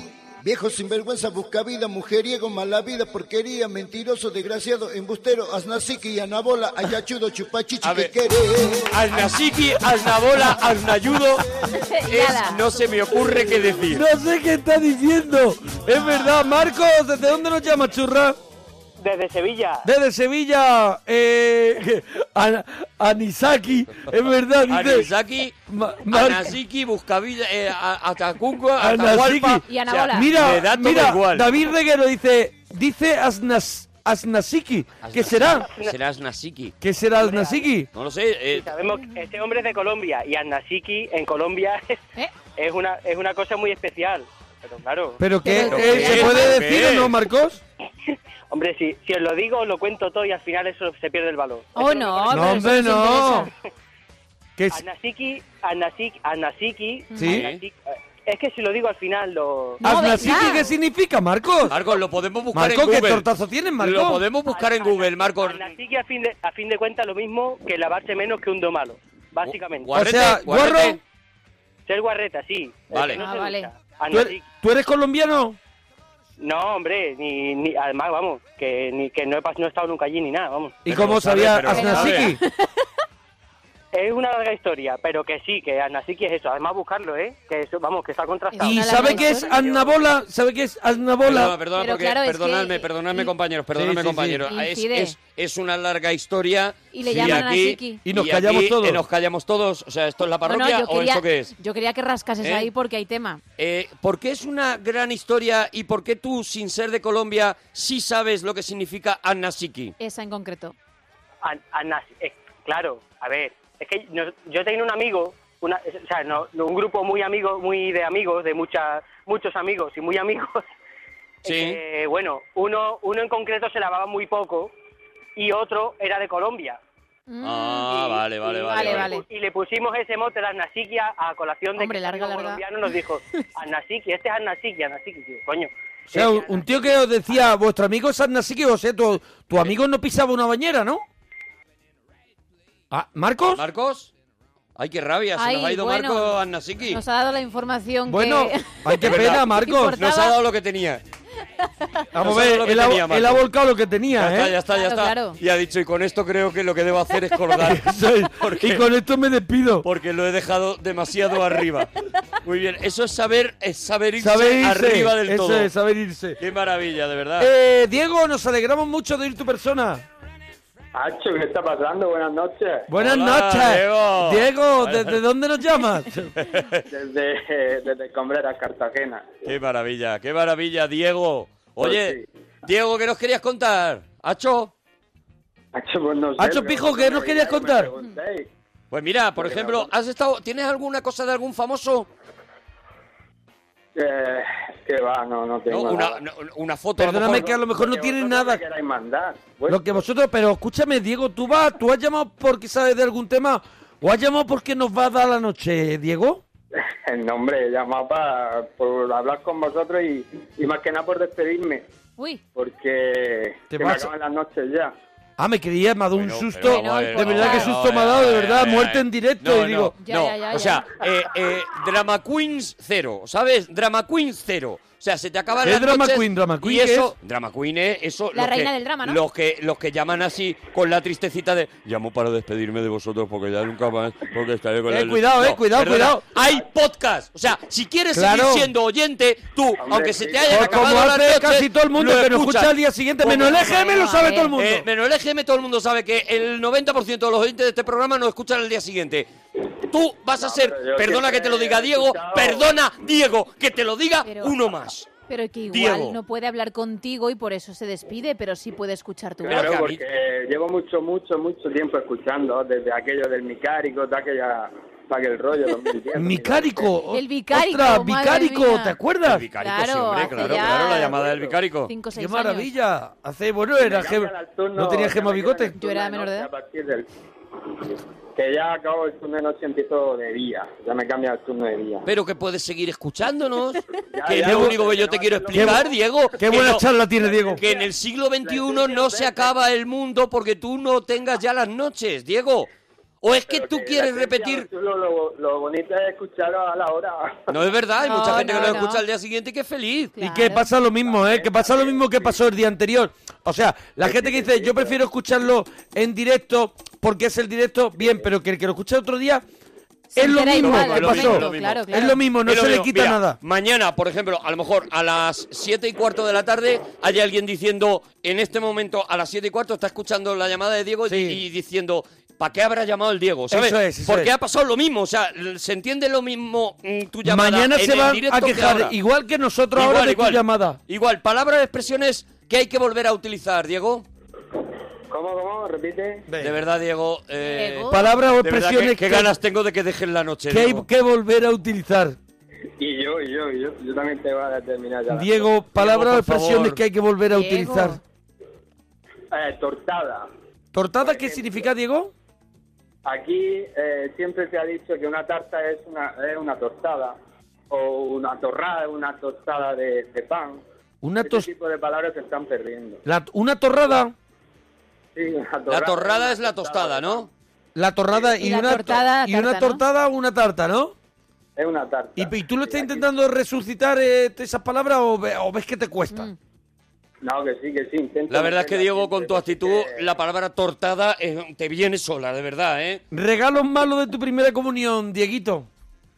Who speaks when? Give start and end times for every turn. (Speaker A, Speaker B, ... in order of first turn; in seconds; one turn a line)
Speaker A: 0.4-8.9
Speaker B: 7.8-8.1
Speaker B: 8.9-11.5
Speaker C: 11.7-12.6
Speaker B: 12.1-14.0
Speaker D: 13.9-18.4
Speaker E: 19.0-19.9
Speaker D: 19.8-25.1
Speaker B: 24.7-25.6
Speaker D: 25.7-26.5
Speaker B: 26.1-31.5
Speaker D: 28.8-35.6
Speaker C: 29.6-30.3
Speaker B: 35.0-36.7
Speaker E: 35.6-35.9
Speaker D: 36.8-37.9
Speaker E: 37.2-37.7
Speaker B: 37.9-38.7
Speaker E: 38.5-42.0
Speaker E: 42.5-45.2
Speaker D: 45.2-47.6
Speaker C: 45.4-46.5
Speaker B: 45.6-47.1
Speaker E: 48.5-52.8
Speaker C: 51.7-53.5
Speaker D: 52.3-53.5
Speaker D: 54.6-54.8
Speaker E: 54.7-59.8
Speaker D: 57.1-57.5
Speaker B: 57.2-57.6
Speaker C: 59.8-60.7
Speaker D: 59.8-61.8
Speaker B: 61.7-63.2
Speaker D: 62.5-64.2
Speaker B: 63.8-65.7
Speaker E: 64.5-69.9
Speaker B: 69.4-71.0
Speaker D: 69.9-71.0
Speaker E: 71.9-74.5
Speaker B: 72.9-73.2
Speaker C: 73.2-73.7
Speaker D: 74.1-75.6
Speaker E: 76.4-80.8
Speaker D: 80.8-82.4
Speaker B: 80.8-82.3
Speaker C: 81.7-82.7
Speaker E: 83.9-90.0
Speaker C: 88.5-89.5
Speaker D: 88.6-91.5
Speaker B: 91.2-101.5
Speaker C: 91.8-93.3
Speaker D: 93.7-94.4
Speaker C: 94.5-95.1
Speaker C: 96.9-98.0
Speaker D: 97.1-97.5
Speaker D: 98.0-99.0
Speaker C: 100.5-103.4
Speaker B: 102.4-102.7
Speaker B: 103.6-109.9
Speaker C: 110.0-110.7
Speaker E: 111.4-120.6
Speaker E: 121.4-124.7
Speaker B: 121.4-121.8
Speaker E: 125.3-126.8
Speaker C: 127.3-129.2
Speaker B: 127.4-129.1
Speaker E: 128.7-137.0
Speaker C: 131.8-132.6
Speaker D: 136.1-141.0
Speaker D: 142.9-143.6
Speaker B: 143.5-144.1
Speaker B: 144.8-147.0
Speaker C: 145.4-146.4
Speaker C: 146.9-150.4
Speaker D: 148.1-150.0
Speaker B: 149.0-151.0
Speaker C: 151.6-152.0
Speaker D: 152.1-154.6
Speaker B: 152.2-153.4
Speaker B: 154.2-158.8
Speaker C: 154.7-155.4
Speaker D: 157.6-159.9
Speaker B: 159.8-161.9
Speaker B: 162.4-165.7
Speaker D: 164.2-166.4
Speaker B: 166.4-167.5
Speaker D: 167.4-170.0
Speaker F: 170.9-172.9
Speaker D: 172.9-176.3
Speaker B: 173.0-175.2
Speaker B: 176.4-176.8
Speaker F: 176.9-179.5
Speaker B: 179.4-184.7
Speaker F: 181.8-182.2
Speaker F: 185.7-188.5
Speaker D: 186.4-187.9
Speaker B: 188.9-192.1
Speaker F: 189.4-189.9
Speaker F: 193.9-196.2
Speaker B: 195.7-197.6
Speaker D: 197.0-198.6
Speaker F: 197.2-200.0
Speaker D: 199.7-206.4
Speaker F: 206.8-211.8
Speaker F: 212.5-214.9
Speaker D: 213.7-214.1
Speaker D: 215.4-219.9
Speaker B: 216.2-243.7
Speaker C: 216.6-217.7
Speaker C: 220.0-220.9
Speaker D: 225.6-227.1
Speaker C: 228.3-229.2
Speaker D: 234.9-236.2
Speaker F: 236.3-236.6
Speaker D: 238.1-238.7
Speaker F: 239.8-241.0
Speaker D: 240.5-244.9
Speaker C: 243.3-244.5
Speaker B: 244.6-249.3
Speaker B: 249.9-255.1
Speaker F: 250.4-252.7
Speaker C: 254.2-254.5
Speaker C: 255.3-259.7
Speaker B: 255.7-256.2
Speaker F: 259.4-266.9
Speaker B: 259.5-260.0
Speaker D: 266.1-269.4
Speaker C: 267.1-269.0
Speaker B: 269.2-271.9
Speaker C: 269.6-271.2
Speaker F: 270.6-271.6
Speaker C: 271.9-272.7
Speaker D: 272.1-275.8
Speaker F: 273.8-277.1
Speaker C: 275.8-276.5
Speaker F: 277.8-282.1
Speaker B: 282.1-286.8
Speaker F: 284.1-286.0
Speaker D: 284.4-284.8
Speaker D: 285.5-287.6
Speaker F: 287.2-287.9
Speaker B: 287.6-292.7
Speaker F: 288.4-289.5
Speaker B: 293.2-294.7
Speaker F: 293.5-297.6
Speaker B: 297.5-300.1
Speaker C: 298.0-299.0
Speaker C: 300.1-300.7
Speaker D: 300.2-309.4
Speaker F: 301.0-302.4
Speaker F: 304.0-304.9
Speaker F: 308.0-308.2
Speaker C: 310.1-312.2
Speaker D: 310.1-313.4
Speaker B: 310.6-328.9
Speaker D: 321.1-321.4
Speaker D: 323.5-324.3
Speaker D: 327.2-330.8
Speaker B: 329.7-334.0
Speaker F: 335.1-336.3
Speaker D: 336.3-336.6
Speaker B: 336.4-340.9
Speaker C: 337.4-338.1
Speaker D: 337.9-339.3
Speaker D: 340.5-342.2
Speaker F: 342.8-345.5
Speaker D: 345.1-348.0
Speaker B: 345.8-346.8
Speaker C: 347.3-348.0
Speaker F: 349.3-350.3
Speaker D: 350.7-352.1
Speaker F: 351.0-351.7
Speaker F: 353.0-357.2
Speaker F: 357.7-360.6
Speaker D: 361.0-361.5
Speaker F: 361.2-363.0
Speaker D: 363.0-364.1
Speaker F: 365.1-367.3
Speaker B: 365.7-367.3
Speaker D: 367.7-370.9
Speaker C: 368.4-369.8
Speaker F: 371.6-373.1
Speaker D: 372.2-376.3
Speaker F: 377.2-380.0
Speaker B: 378.3-383.0
Speaker D: 383.1-385.7